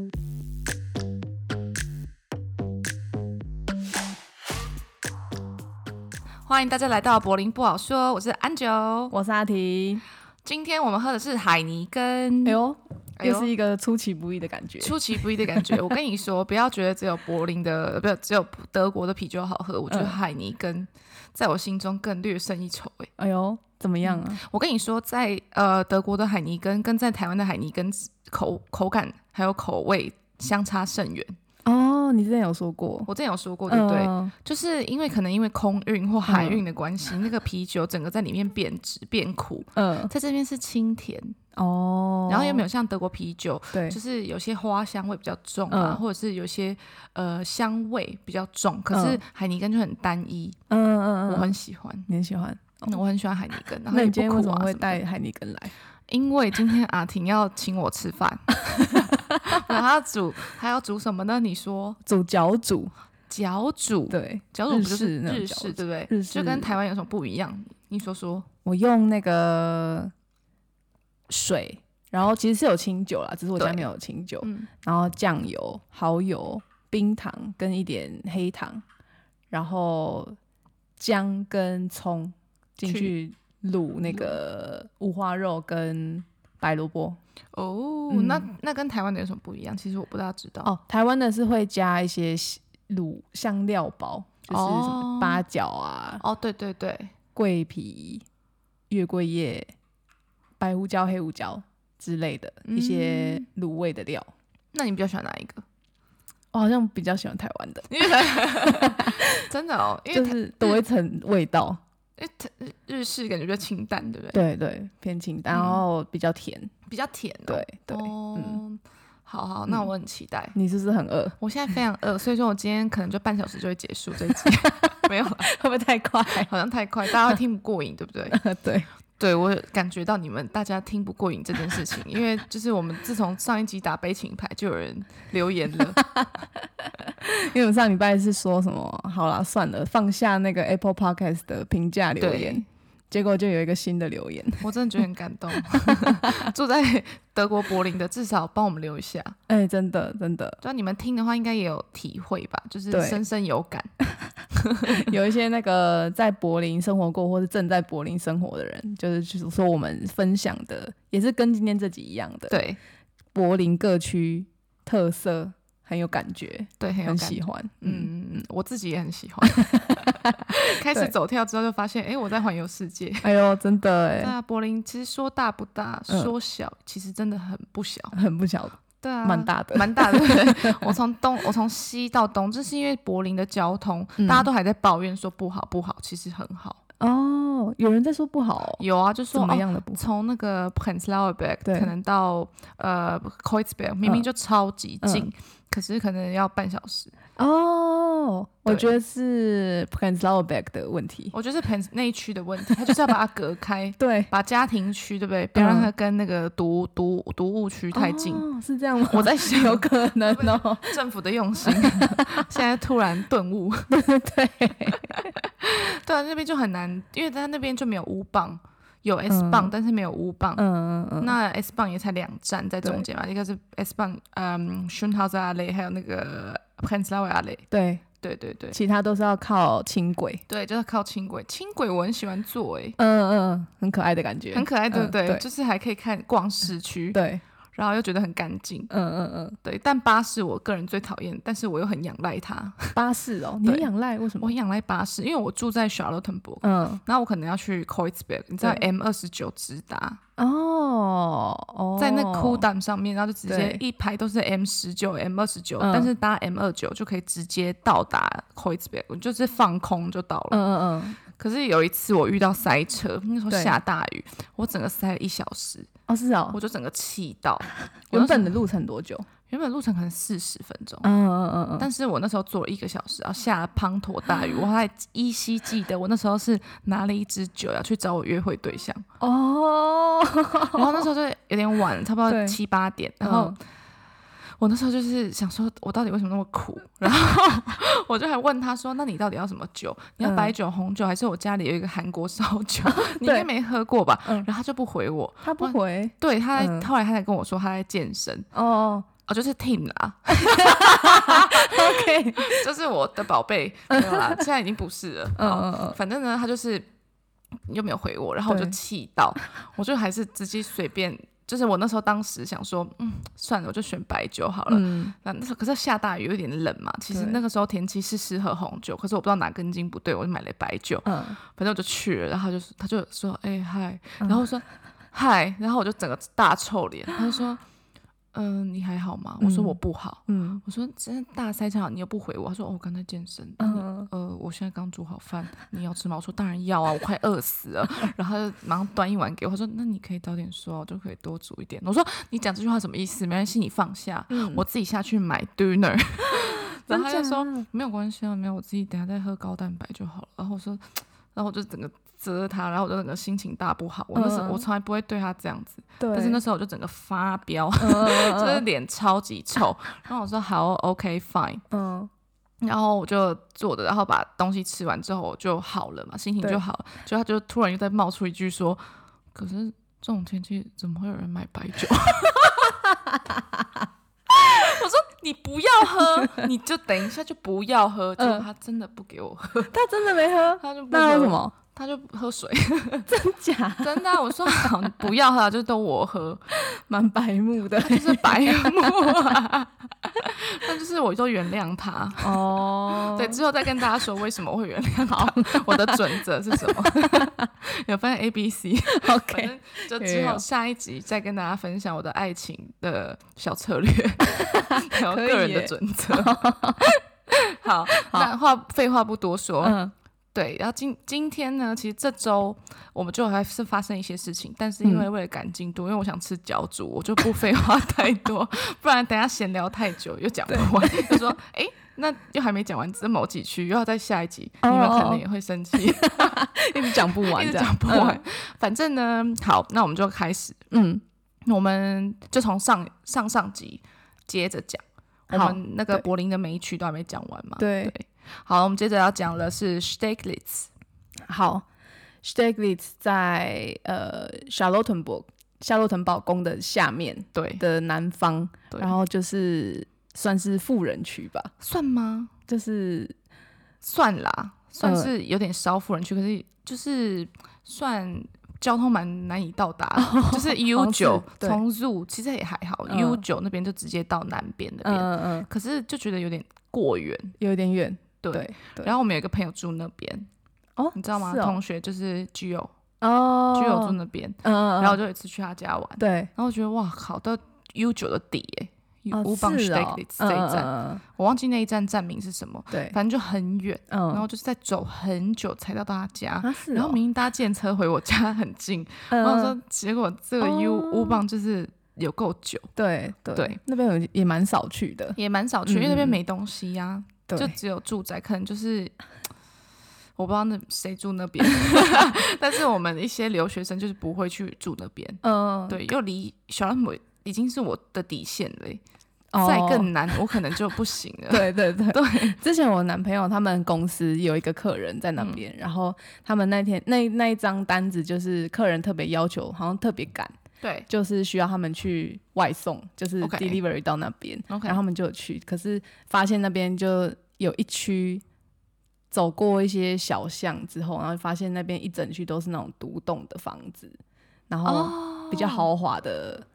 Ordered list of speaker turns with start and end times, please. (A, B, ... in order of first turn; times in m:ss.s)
0:06.5-0:09.2 A
0:09.1-0:10.0 B
0:10.4-0:12.6 A
0:12.4-0:15.8 B
0:13.2-0:13.5 A
0:14.8-0:23.1 A
0:19.9-0:20.2 B
0:23.2-0:24.4 B
0:24.0-0:31.4 A
0:31.6-0:33.1 B
0:33.1-0:41.4 A
0:33.7-0:34.3 B
0:36.3-0:36.6 B
0:39.8-0:40.1 B
0:41.6-0:42.6 B
0:42.3-0:50.6 A
0:43.7-0:44.0 B
0:45.7-0:46.0 B
0:48.9-0:49.2 B
0:50.7-0:51.5 B
0:51.3-0:52.1 A
0:52.1-0:53.0 B
0:52.9-0:55.0 A
0:53.9-0:55.7 B
0:56.1-1:02.0 A
1:02.0-1:02.9 B
1:03.3-1:08.5 A
1:04.1-1:06.8 B
1:08.6-1:10.1 B
1:11.3-1:18.8 B
1:13.6-1:13.9 A
1:14.4-1:14.7 A
1:19.5-1:20.4 B
1:21.0-1:27.2 B
1:22.8-1:23.1 A
1:24.1-1:24.4 A
1:27.5-1:30.7 A
1:28.1-1:28.5 B
1:30.6-1:36.2 B
1:34.5-1:35.4 A
1:36.2-1:37.1 A
1:37.4-1:38.2 B
1:38.9-1:39.7 B
1:40.6-1:44.3 B
1:42.6-1:43.4 A
1:44.7-1:45.6 A
1:46.5-1:49.4 B
1:47.9-1:50.8 A
1:50.1-1:51.8 B
1:52.2-1:54.4 A
1:54.3-1:56.7 B
1:55.5-1:55.8 A
1:56.9-2:00.6 A
1:57.5-1:58.6 B
2:00.6-2:01.4 B
2:01.4-2:05.5 A
2:04.3-2:06.5 B
2:06.3-2:08.4 A
2:07.1-2:07.4 B
2:08.3-2:08.9 B
2:09.2-2:16.0 A
2:16.0-2:24.6 B
2:22.2-2:22.6 A
2:24.6-2:29.4 A
2:25.7-2:26.4 B
2:29.5-2:30.6 B
2:30.6-2:33.9 A
2:32.9-2:33.2 B
2:34.5-2:35.0 A
2:34.9-2:42.6 B
2:42.5-2:42.8 A
2:43.4-2:48.1 B
2:46.8-2:53.3 A
2:49.6-2:50.4 B
2:53.2-2:54.3 B
2:54.2-2:58.2 A
2:58.1-3:01.0 B
2:59.0-3:06.8 A
3:04.2-3:04.5 B
3:07.0-3:10.0 B
3:08.8-3:17.1 A
3:11.6-3:11.9 B
3:17.4-3:21.3 B
3:21.3-3:28.4 A
3:22.8-3:23.1 B
3:24.0-3:24.3 B
3:25.6-3:25.9 B
3:27.9-3:31.0 B
3:29.1-3:34.0 A
3:31.6-3:32.5 B
3:33.9-3:35.2 B
3:35.1-3:40.6 A
3:39.3-3:39.7 B
3:40.6-3:41.4 B
3:41.2-3:47.6 A
3:47.7-3:48.0 B
3:48.2-3:48.8 A
3:48.7-3:50.4 B
3:50.5-3:53.0 A
3:53.0-3:55.4 B
3:54.5-3:57.2 A
3:57.1-3:57.4 B
3:57.8-3:58.9 A
3:58.9-3:59.6 B
3:59.6-4:03.0 A
4:03.0-4:04.5 B
4:04.4-4:10.2 A
4:06.6-4:07.0 B
4:10.4-4:12.6 B
4:12.0-4:20.6 A
4:13.5-4:13.8 B
4:15.8-4:16.1 B
4:20.5-4:21.2 B
4:21.3-4:25.9 A
4:26.1-4:26.6 B
4:26.5-4:28.6 A
4:28.1-4:29.3 B
4:29.5-4:31.1 A
4:31.0-4:31.9 B
4:31.8-4:39.0 A
4:39.2-4:41.1 B
4:40.7-4:43.6 A
4:42.3-4:42.6 B
4:43.2-4:43.6 B
4:44.6-4:58.5 A
4:50.2-4:50.6 B
4:52.8-4:53.5 B
4:55.4-4:56.9 B
4:58.5-4:59.1 B
4:59.3-5:06.9 A
5:00.3-5:02.6 B
5:03.9-5:04.4 B
5:05.4-5:06.0 B
5:07.7-5:27.6 A
5:08.5-5:08.8 B
5:14.7-5:15.1 B
5:17.1-5:17.4 B
5:21.1-5:21.4 B
5:28.3-6:01.6 A
5:29.4-5:30.6 B
5:33.6-5:34.1 B
5:44.3-5:44.6 B
5:46.4-5:47.6 B
5:54.1-5:54.6 B
5:56.0-5:56.4 B
5:57.8-5:58.6 B
6:01.7-6:02.1 B
6:02.6-6:08.8 A
6:09.4-6:12.8 A
6:12.7-6:13.9 B
6:14.3-6:23.1 A
6:18.2-6:18.5 B
6:19.7-6:21.5 B
6:23.1-6:24.7 B
6:23.8-6:26.4 A
6:26.5-6:29.4 B
6:27.8-6:32.4 A
6:32.2-6:33.4 B
6:33.1-6:49.8 A
6:35.1-6:37.4 B
6:38.9-6:40.4 B
6:44.4-6:47.0 B
6:48.0-6:48.3 B
6:49.6-6:49.9 B
6:50.3-7:10.7 A
7:00.5-7:01.4 B
7:04.6-7:05.2 B
7:05.7-7:08.2 B
7:10.7-7:11.0 B
7:11.5-7:20.7 A
7:15.3-7:16.0 B
7:17.6-7:17.9 B
7:21.3-7:21.7 B
7:22.2-7:31.5 B
7:27.3-7:27.6 A
7:31.6-7:32.3 A
7:32.5-7:33.2 B
7:33.8-7:47.4 A
7:34.8-7:35.1 B
7:40.0-7:41.6 B
7:42.9-7:43.2 B
7:44.8-7:45.5 B
7:47.4-7:48.9 B
7:48.2-7:50.3 A
7:50.8-7:51.6 B
7:50.9-7:52.7 A
7:53.0-7:55.0 B
7:53.5-8:12.7 A
7:56.0-7:56.3 B
7:59.1-8:01.0 B
8:02.7-8:03.0 B
8:03.9-8:04.3 B
8:06.4-8:07.0 B
8:09.1-8:09.6 B
8:10.4-8:11.2 B
8:12.8-8:16.2 B
8:13.3-8:13.6 A
8:15.2-8:18.9 A
8:17.3-8:17.6 B
8:20.2-8:28.8 A
8:25.2-8:25.8 B
8:29.3-8:29.9 B
8:29.4-8:32.4 A
8:31.3-8:40.3 B
8:40.6-8:40.9 A
8:40.9-8:48.2 B
8:43.2-8:43.6 A
8:44.5-8:44.8 A
8:49.1-8:54.0 B
8:54.5-8:56.5 B
8:54.6-8:55.7 A